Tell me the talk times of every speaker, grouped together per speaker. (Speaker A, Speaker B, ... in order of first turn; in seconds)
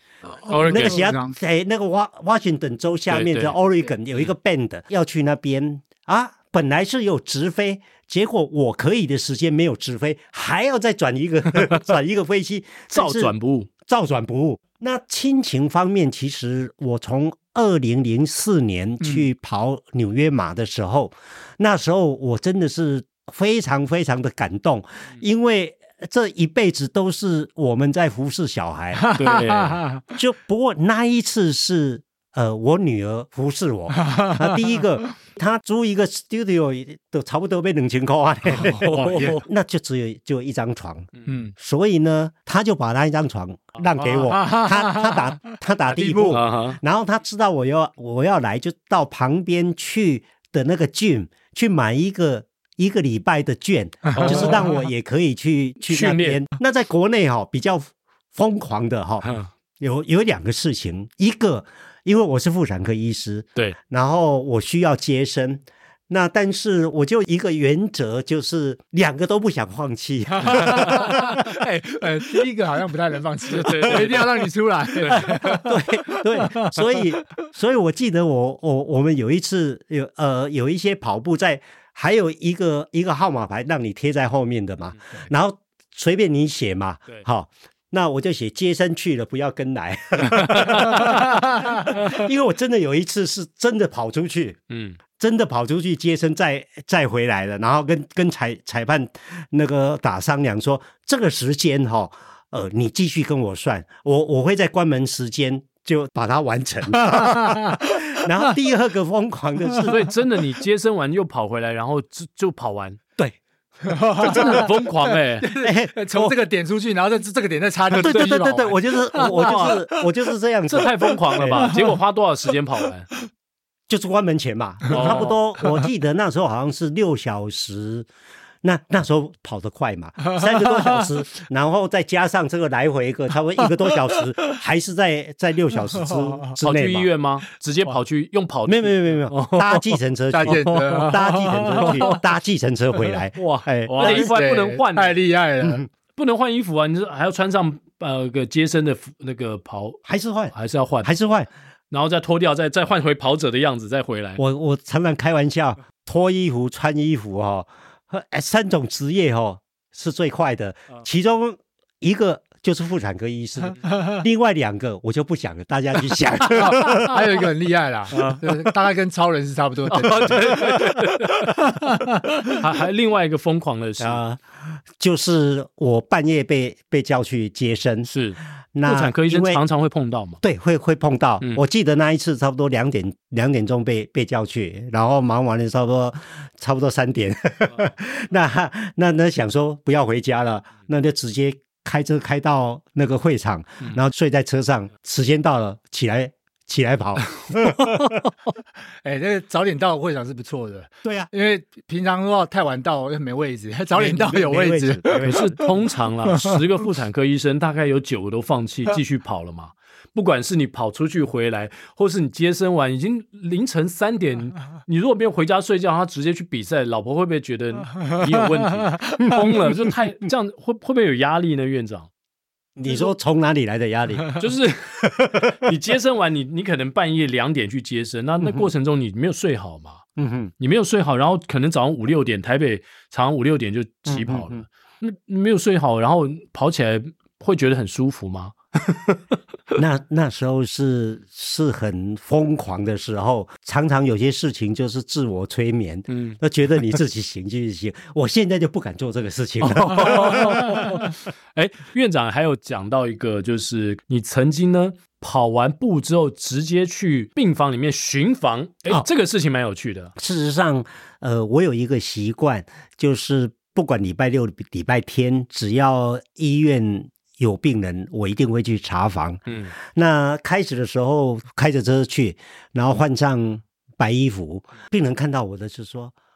Speaker A: 0.3-1.4, 29.0-30.0, 34.0-34.7, 39.1-39.4, 41.3-41.5, 44.3-45.2, 46.0-46.4, 54.1-54.7, 70.4-75.7, 76.4-76.8, 107.1-107.8, 113.9-120.0, 121.1-122.0, 124.9-125.2, 130.7-131.0, 136.1-136.5, 140.3-142.2, 144.0-145.8, 166.5-170.7, 171.7-172.4, 199.0-205.5, 206.3-206.6, 218.9-219.3
Speaker B: 0.5-1.1, 3.1-3.6, 12.9-13.7, 29.2-29.9, 38.6-39.4, 41.2-41.4, 43.8-44.1, 46.3-46.8, 54.1-54.7, 55.9-56.4, 59.2-59.5, 73.6-75.6, 90.3-91.2, 94.7-95.0, 109.9-113.0, 114.2-115.5, 117.9-118.4, 119.2-119.8, 120.7-123.1, 124.9-125.3, 136.6-141.0, 141.8-142.1, 143.4-145.2, 146.1-150.0, 150.5-151.1, 151.9-154.4, 168.1-168.4, 169.9-171.7, 172.5-174.2, 178.1-180.4, 205.2-222.1, 224.4-230.0, 230.6-239.1, 246.1-246.4, 249.8-260.1, 269.5-269.7
Speaker C: 0.6-13.3, 13.8-29.1, 30.1-71.3, 75.0-94.6, 95.2-110.1, 115.6-116.4, 118.0-121.6, 123.9-128.1, 128.6-137.1, 138.7-144.3, 150.1-151.5, 154.4-167.2, 174.0-178.1, 178.7-179.6, 180.4-198.0, 201.0-201.3, 204.0-205.6, 222.8-224.3, 228.4-228.7, 230.2-230.5, 234.1-234.7, 239.8-251.1, 260.2-276.1